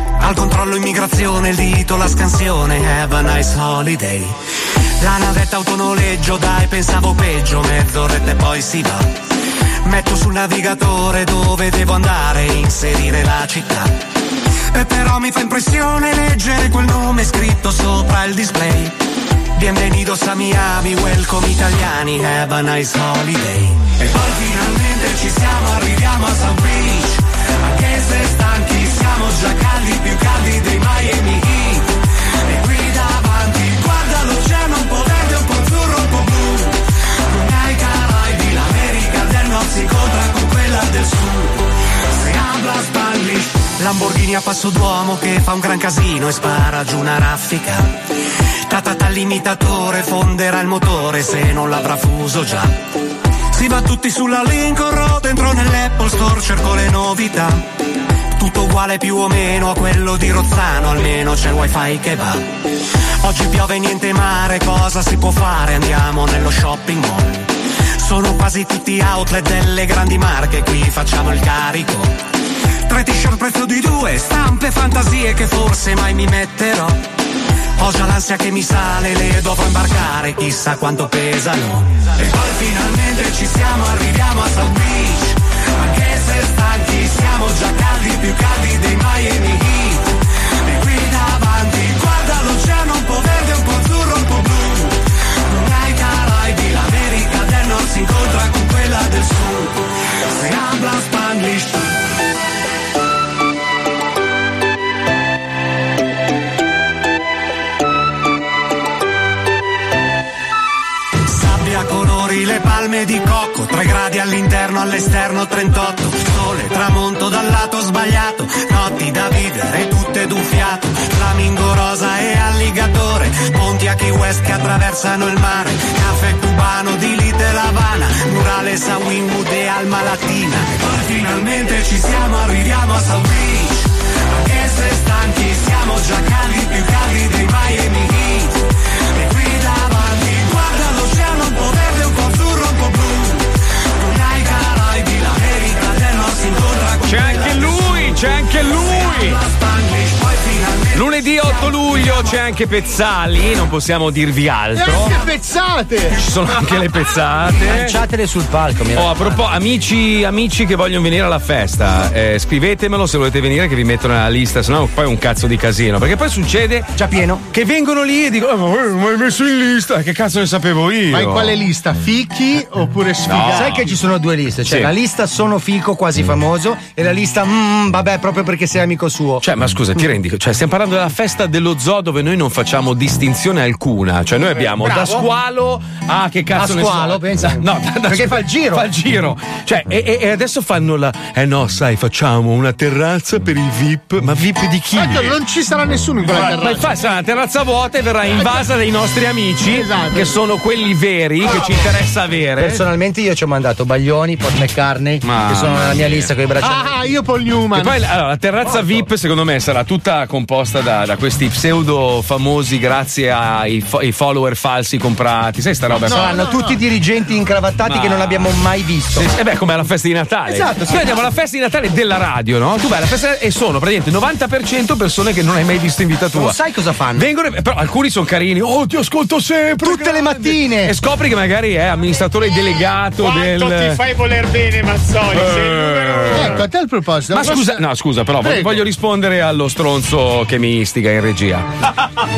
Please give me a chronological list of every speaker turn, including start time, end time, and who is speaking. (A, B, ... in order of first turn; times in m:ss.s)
0:00.2-0:04.4 A
0:05.0-0:09.1 A
0:09.8-0:14.0 A
0:14.7-0:19.0 A
0:19.5-0:47.9 A
0:48.6-0:52.7 A
0:53.5-0:57.6 A
0:58.3-1:02.5 A
1:03.2-1:12.2 A
1:12.9-1:17.0 A
1:17.8-1:41.9 A
1:51.3-2:32.4 A
2:27.0-2:29.4 B
2:30.9-2:35.1 B
2:34.7-2:36.2 C
2:36.1-2:38.0 B
2:37.6-2:39.5 D
2:38.9-2:46.9 B
2:47.0-2:47.4 D
2:47.5-2:51.5 B
2:51.1-2:53.9 C
2:53.2-2:53.9 B
2:53.5-2:59.4 D
2:54.6-2:54.9 B
2:59.4-3:15.3 B
3:04.8-3:05.3 D
3:06.5-3:08.9 D
3:14.9-3:17.0 C
3:16.4-3:22.8 B
3:18.3-3:18.7 C
3:19.7-3:20.4 C
3:22.6-3:27.0 D
3:25.2-3:26.3 B
3:26.6-3:28.0 C
3:27.7-3:36.4 B
3:36.0-3:39.3 D
3:36.1-3:36.8 C
3:37.8-3:38.5 B
3:39.1-3:46.6 B
3:40.4-3:41.2 D
3:46.3-3:47.3 D
3:47.1-3:54.0 B
3:49.8-3:50.9 D
3:53.2-3:56.3 E
3:55.3-3:56.6 B
3:56.3-3:57.8 C
3:57.3-4:01.7 B
3:58.4-3:58.8 C